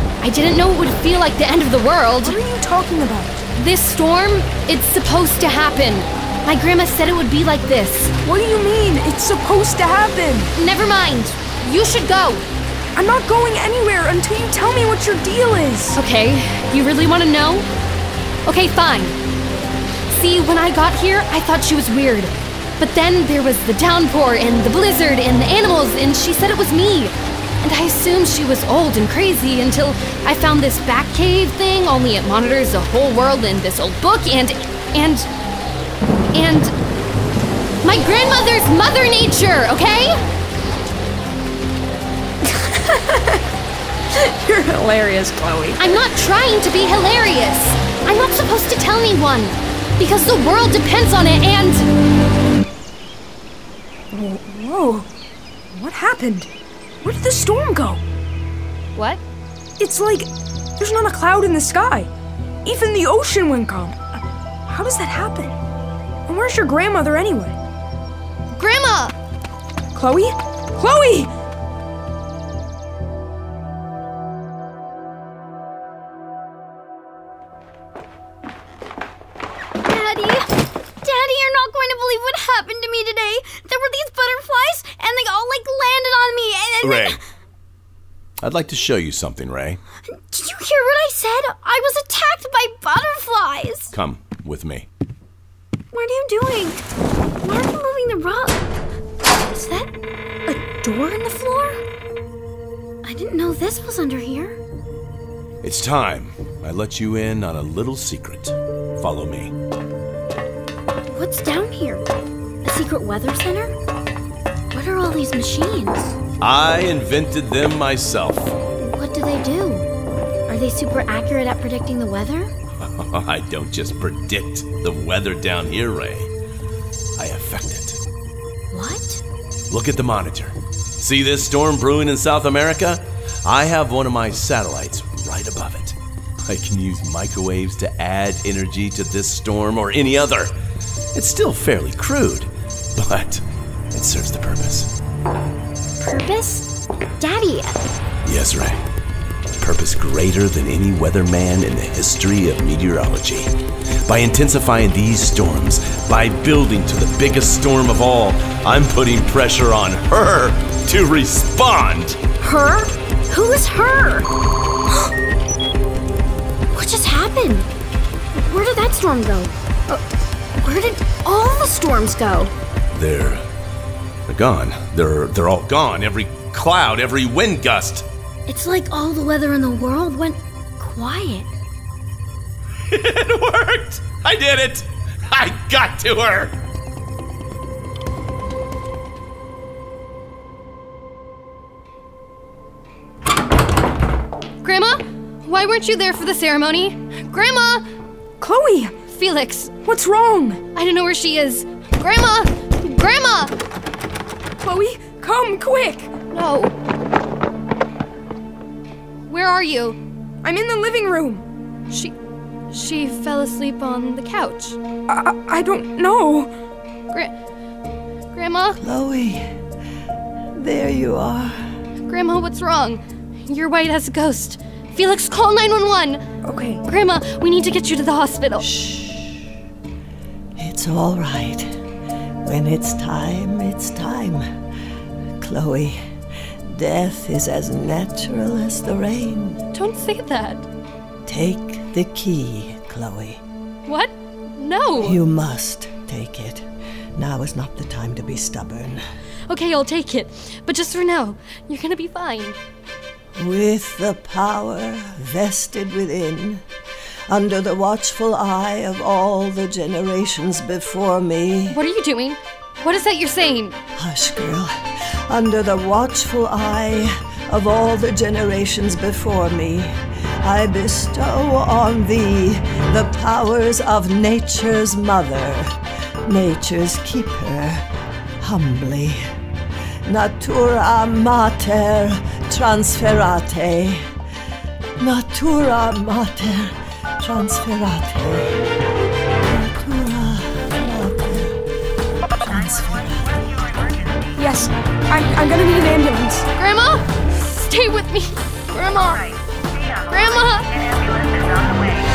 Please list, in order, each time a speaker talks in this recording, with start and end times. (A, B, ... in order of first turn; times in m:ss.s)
0:00.2-0:02.4 A
0:02.2-0:03.4 B
0:03.5-0:08.1 A
0:08.2-0:10.5 B
0:10.5-0:12.4 A
0:12.9-0:16.0 B
0:15.9-0:17.7 A
0:18.4-0:19.2 A
0:20.1-0:35.3 A
0:36.3-0:36.7 A
0:37.8-0:40.2 A
0:42.4-0:43.4 B
0:44.1-0:46.0 B
0:45.8-0:51.9 A
0:54.1-0:55.1 B
0:55.7-0:56.5 B
0:57.0-0:58.0 B
0:58.9-0:59.2 A
0:59.8-1:02.1 B
1:02.6-1:05.6 B
1:06.3-1:07.6 B
1:08.5-1:09.2 A
1:09.9-1:11.3 B
1:19.8-1:27.2 C
1:26.8-1:27.2 D
1:28.4-1:29.8 D
1:30.0-1:33.9 C
1:33.9-1:34.9 D
1:35.9-1:36.8 C
1:37.4-1:38.7 C
1:39.5-1:39.9 C
1:40.5-1:41.8 C
1:43.0-1:44.6 C
1:45.6-1:49.5 D
1:51.1-1:52.0 C
1:52.6-1:53.7 C
1:54.7-1:56.2 C
1:56.4-1:58.5 D
1:58.8-1:59.9 C
2:00.5-2:02.5 C
2:02.8-2:06.3 D
2:07.2-2:08.0 D
2:08.7-2:09.2 C
2:09.7-2:20.5 D
2:21.1-2:24.9 D
2:26.0-2:27.8 C
2:28.2-2:28.8 D
2:29.6-2:33.5 D
2:34.0-2:42.2 D
2:42.4-2:44.3 C
2:46.7-2:47.7 C
2:48.4-2:50.0 C
2:50.6-2:52.5 C
2:52.9-2:53.4 D
2:54.3-2:58.0 D
2:58.5-3:01.5 C
3:02.9-3:06.5 D
3:14.6-3:17.8 A
3:18.4-3:19.0 B
3:19.0-3:19.8 A
3:19.8-3:20.6 B
3:20.7-3:23.5 A
3:24.6-3:26.1 B
3:26.3-3:26.7 A
3:29.3-3:30.0 A
3:30.4-3:31.4 B
3:31.9-3:32.1 A
3:32.7-3:34.8 A
3:35.1-3:36.5 B
3:38.3-3:38.8 A
3:38.8-3:39.5 E
3:40.5-3:41.7 E
3:42.1-3:46.2 A
3:46.4-3:46.8 B
3:46.8-3:48.7 A
3:48.6-3:49.5 E
3:50.6-3:51.8 E
3:52.4-3:54.4 E
3:55.4-3:56.0 E
3:56.6-3:59.6 E
3:59.7-4:00.7 A
4:01.2-4:03.4 E
4:03.8-4:05.2 A
4:05.0-4:09.0 E
4:09.5-4:12.6 A
4:13.4-4:16.6 E
4:17.3-4:21.8 E
4:21.7-4:23.8 A
4:24.0-4:37.9 E
4:38.4-4:39.2 E
4:40.0-4:44.1 E
4:45.0-4:48.6 E
4:49.4-4:51.6 E
4:52.4-4:53.6 E
4:54.4-4:56.5 B
4:56.6-4:59.3 A
5:00.1-5:00.7 A